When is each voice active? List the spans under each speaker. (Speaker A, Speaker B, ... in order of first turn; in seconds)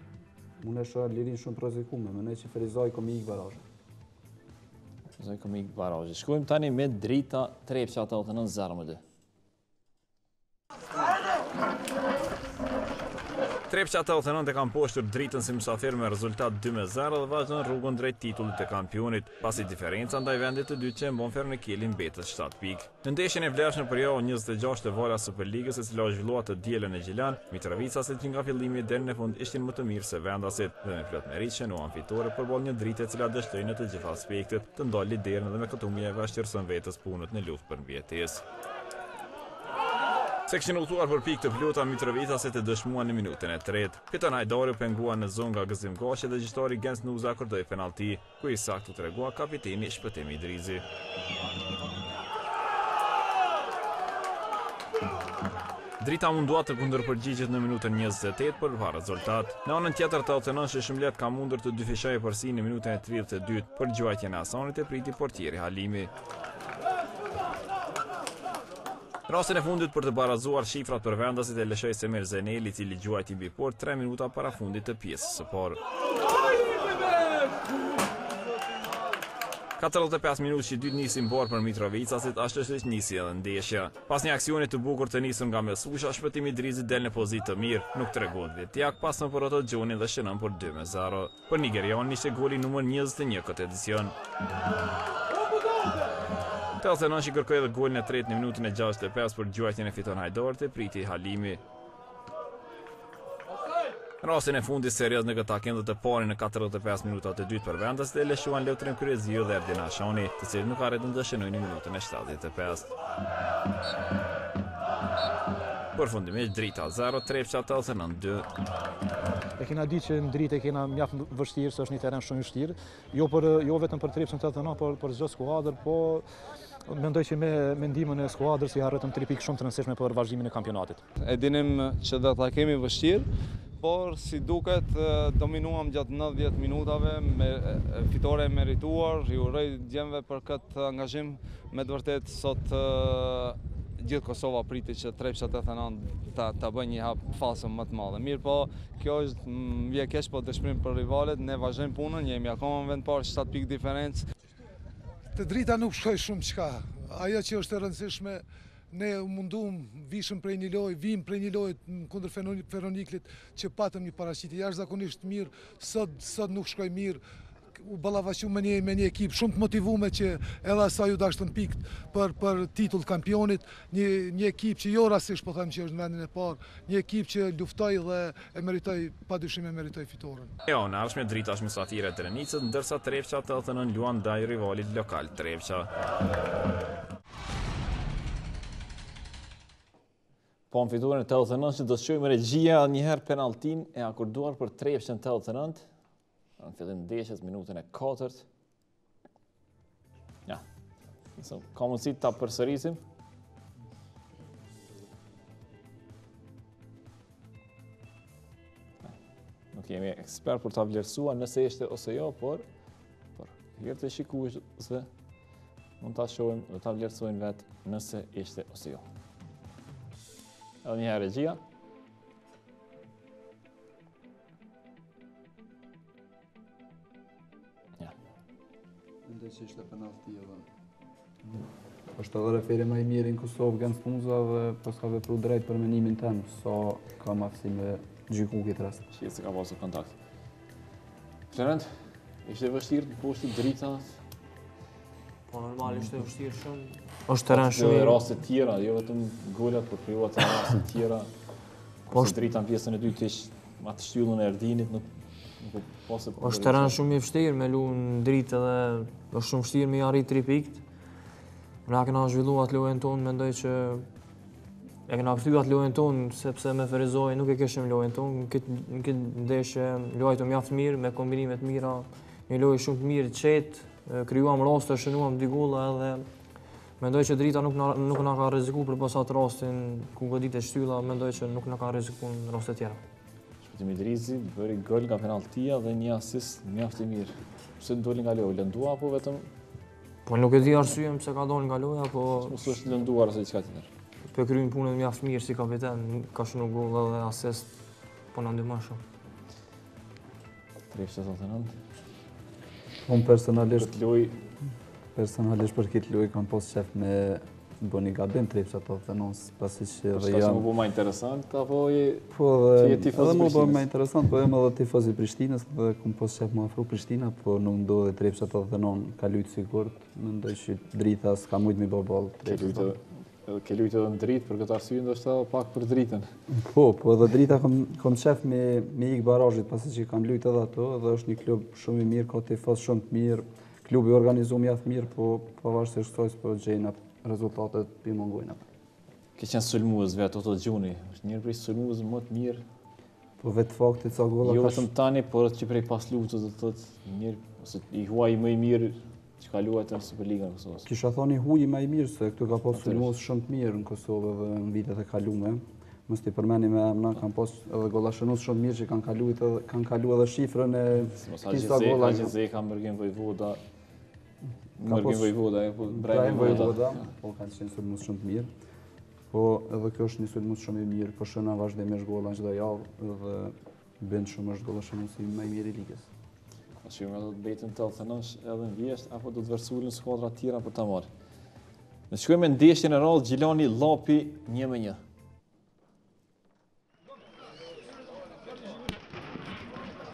Speaker A: 0.6-3.6, 229.3-230.7, 231.5-239.0, 303.1-304.0, 305.1-310.7, 312.3-322.9, 326.5-338.6, 343.4-344.9, 350.9-362.3, 364.8-365.3, 365.9-368.5, 369.3-376.1
Speaker B: 5.2-9.0, 13.7-38.4, 40.5-50.9, 56.0-66.1, 69.3-75.8, 79.8-94.2, 96.8-101.6, 104.2-112.9, 116.0-118.5, 180.7-185.9, 190.7-195.8, 196.6-198.5, 201.4-203.0, 209.7-212.7, 213.4-215.1, 216.0-219.0, 220.8-221.6, 239.1-240.2, 241.5-244.2, 247.5-251.3, 252.1-255.1, 255.6-257.0, 283.6-289.5, 292.4-293.9, 300.9-301.8, 303.7-304.4, 310.1-313.9, 322.4-326.3, 339.4-342.6, 344.4-350.9, 352.8-353.1, 361.2-363.6, 364.8-367.1, 376.8-381.1, 382.1-385.0
Speaker C: 119.6-126.2, 126.9-131.0
Speaker D: 131.2-133.3, 133.8-154.3
Speaker E: 155.3-167.2, 167.8-180.5
Speaker F: 245.5-248.2, 252.1-252.4, 256.4-260.8, 261.9-264.1, 265.1-276.3, 277.0-283.0, 290.3-292.7, 294.3-297.8, 298.3-299.0